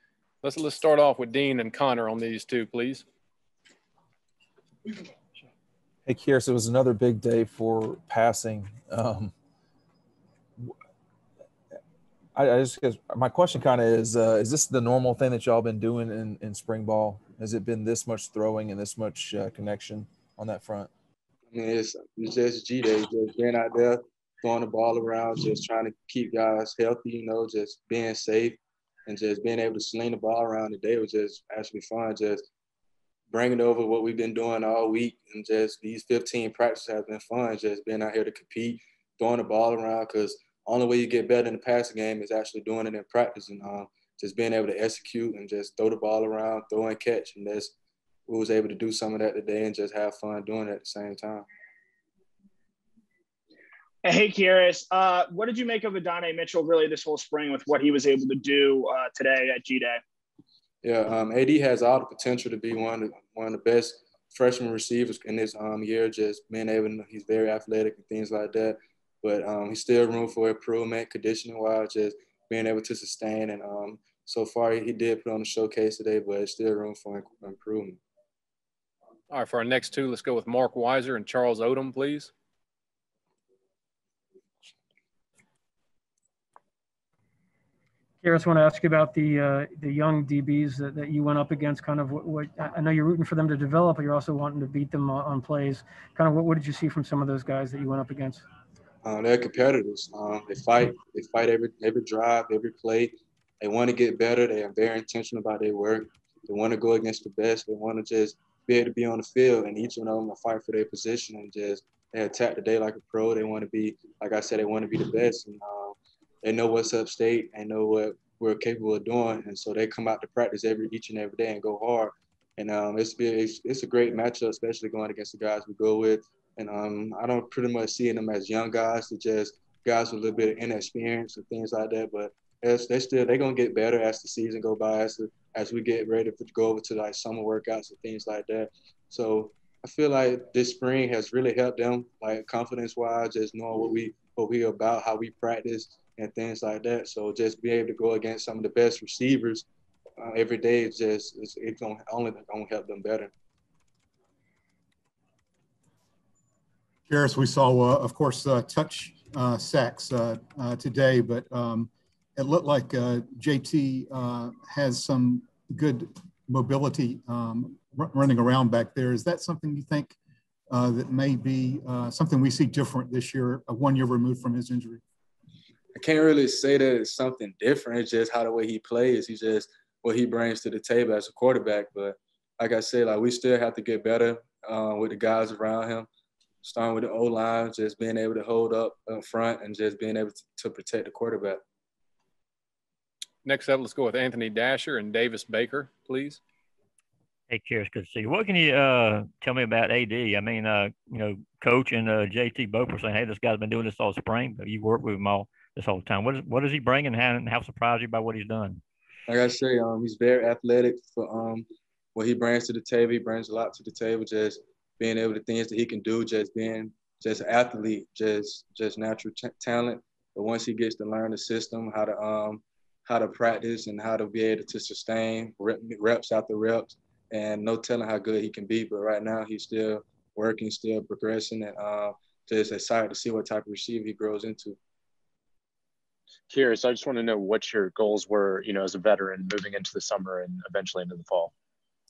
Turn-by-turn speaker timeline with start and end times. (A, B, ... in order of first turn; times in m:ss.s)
0:00.4-0:03.0 A
0:06.1-0:09.3 B
0:12.4-0:20.9 B
0:21.5-0:32.5 C
0:33.3-0:47.7 C
0:48.3-0:51.4 C
0:54.0-1:00.0 D
1:00.8-1:18.0 C
1:19.3-1:22.3 A
1:28.2-1:38.4 E
1:39.0-2:29.6 C
2:30.2-2:33.3 C
2:37.1-2:50.2 F
2:50.7-2:55.0 F
2:56.0-3:06.1 C
3:06.6-3:11.6 C
3:13.4-3:16.4 A
3:17.5-3:28.8 G
3:29.3-3:54.8 C
3:56.5-4:01.5 H